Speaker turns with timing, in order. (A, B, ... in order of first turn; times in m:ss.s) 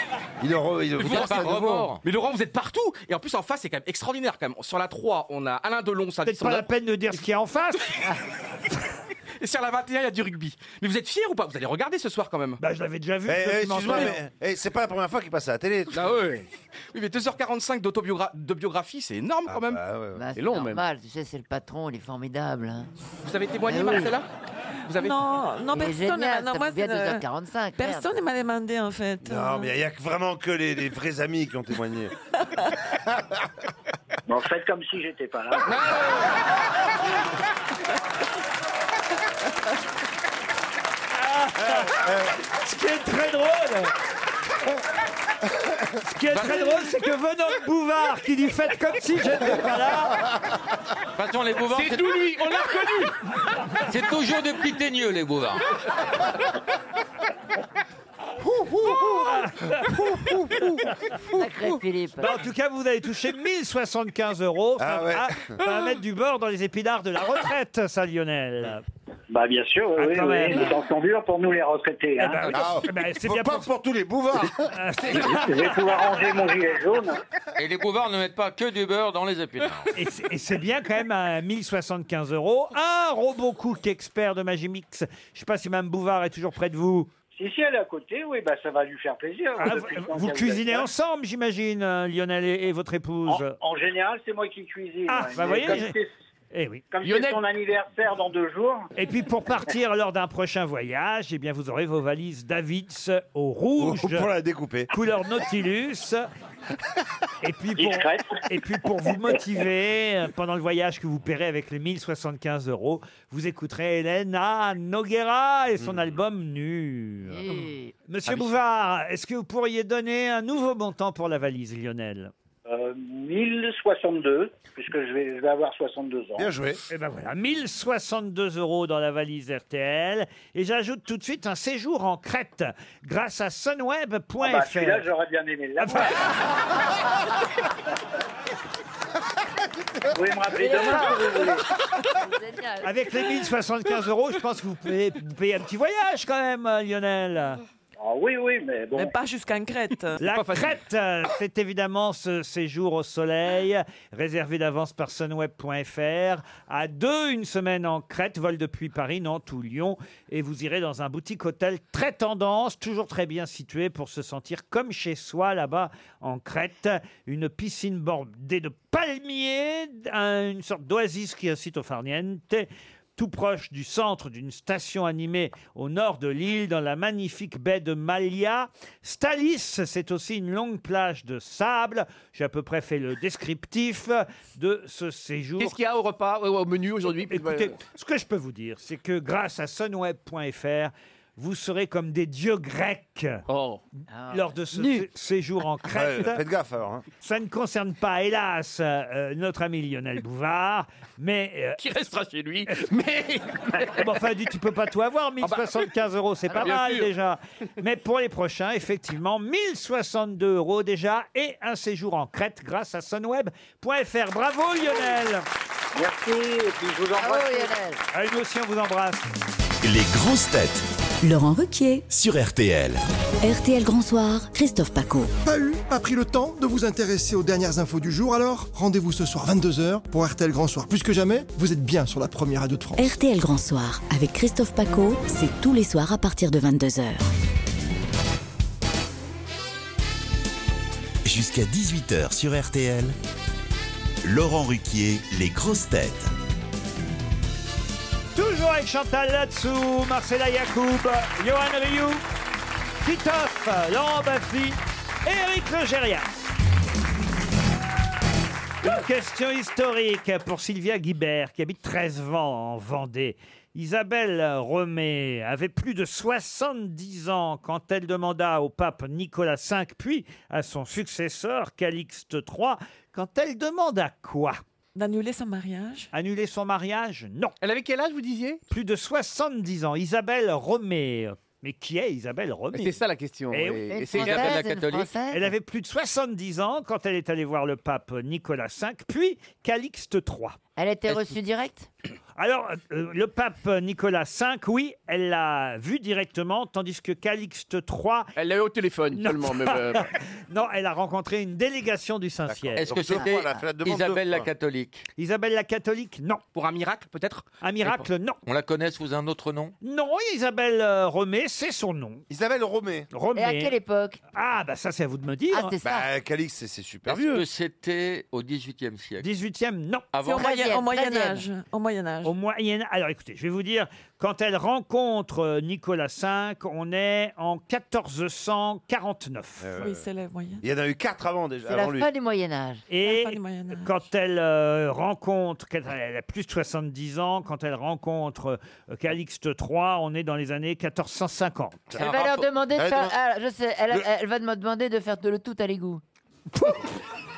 0:00.4-0:01.9 A
0:01.0-0:06.7 B
0:01.0-0:02.0 C
0:06.2-0:08.0 D
0:09.4-0:12.6 B
0:12.6-0:14.2 D
0:13.2-0:16.1 A
0:15.9-0:16.5 E
0:16.9-0:19.8 B
0:19.5-0:20.2 A
0:20.1-0:22.9 F
0:20.3-0:20.8 E
0:23.2-0:24.3 B
0:23.7-0:24.1 F
0:24.9-0:25.1 B
0:24.9-0:27.2 G
0:25.7-0:28.1 F
0:27.8-0:29.7 G
0:29.2-0:32.1 A
0:33.0-0:33.5 A
0:34.3-0:36.0 H
0:41.1-0:43.9 D
0:41.6-0:42.3 A
0:46.0-0:50.2 D
0:46.3-0:46.7 C
0:51.2-0:52.2 C
0:51.7-0:53.1 E
0:53.8-0:55.6 C
0:58.4-0:59.3 A
0:59.2-1:00.0 D
1:00.2-1:00.7 A
1:01.3-1:02.4 F
1:02.2-1:08.8 D
1:04.8-1:05.6 A
1:09.3-1:12.6 H
1:10.0-1:10.7 D
1:12.2-1:13.6 D
1:12.5-1:14.7 A
1:14.7-1:16.3 D
1:15.1-1:17.2 H
1:17.6-1:19.9 C
1:19.9-1:27.1 D
1:27.3-1:30.9 H
1:29.6-1:33.6 D
1:33.2-1:36.1 H
1:35.1-1:36.0 D
1:36.5-1:36.8 D
1:36.9-1:38.9 H
1:37.0-1:37.4 E
1:39.0-1:44.3 D
1:43.8-1:44.9 A
1:44.9-1:46.2 D
1:47.4-1:57.4 D
1:47.8-1:48.4 H
1:55.8-1:56.0 A
1:57.3-1:57.9 F
1:58.1-2:02.3 D
2:02.6-2:06.5 H
2:06.4-2:06.8 A
2:06.9-2:15.0 D
2:14.4-2:16.3 H
2:15.8-2:16.1 D
2:20.1-2:21.6 H
2:20.5-2:22.9 F
2:22.8-2:27.6 D
2:28.0-2:29.1 H
2:28.9-2:30.2 G
2:30.2-3:05.8 D
2:30.3-2:30.7 E
3:05.6-3:07.8 E
3:07.3-3:13.4 D
3:13.5-3:13.8 E
3:14.1-3:15.0 F
3:14.3-3:16.4 D
3:15.9-3:17.0 A
3:17.2-3:21.8 D
3:21.8-3:24.0 E
3:23.8-3:35.4 D
3:25.4-3:25.8 E
3:26.5-3:27.1 E
3:35.9-3:37.7 H
3:37.2-3:38.0 F
3:38.1-3:39.2 D
3:39.8-3:40.8 I
3:41.2-3:42.1 J
3:42.1-3:43.0 I
3:43.4-3:45.3 J
3:45.4-3:53.1 K
3:53.0-3:57.3 J
4:01.2-4:03.2 I
4:04.2-4:06.3 I
4:08.3-4:12.2 D
4:13.0-4:16.2 D
4:18.8-4:34.6 D
4:34.9-4:36.1 G
4:36.1-4:37.6 D
4:37.6-4:38.6 E
4:38.7-4:43.0 D
4:42.7-4:44.6 E
4:43.5-4:43.9 D
4:43.9-4:45.5 F
4:44.2-4:45.1 C
4:45.3-4:50.6 D
4:50.8-4:51.9 F
4:51.1-4:51.4 C
4:52.4-4:58.3 D
4:58.4-5:00.0 E
4:59.1-5:02.8 D
5:02.5-5:04.5 A
5:02.8-5:05.0 C
5:05.2-5:06.4 D
5:06.5-5:08.0 B
5:07.6-5:08.4 D
5:08.4-5:09.7 C
5:09.8-5:12.2 D
5:12.3-5:13.1 A
5:13.1-5:13.7 D
5:13.3-5:14.2 F
5:14.3-5:15.7 D
5:15.5-5:16.1 F
5:15.8-5:17.4 A
5:17.1-5:19.2 C
5:19.2-5:20.1 D
5:20.1-5:20.5 C
5:20.2-5:22.3 G
5:20.3-5:21.5 F
5:22.2-5:29.8 D
5:29.6-5:30.0 A
5:29.8-5:30.6 G
5:30.6-5:32.1 A
5:31.7-5:32.9 F
5:32.9-5:41.9 D
5:33.0-5:33.9 G
5:41.9-5:42.5 C
5:41.9-5:46.0 F
5:42.7-5:43.2 A
5:46.5-5:46.9 D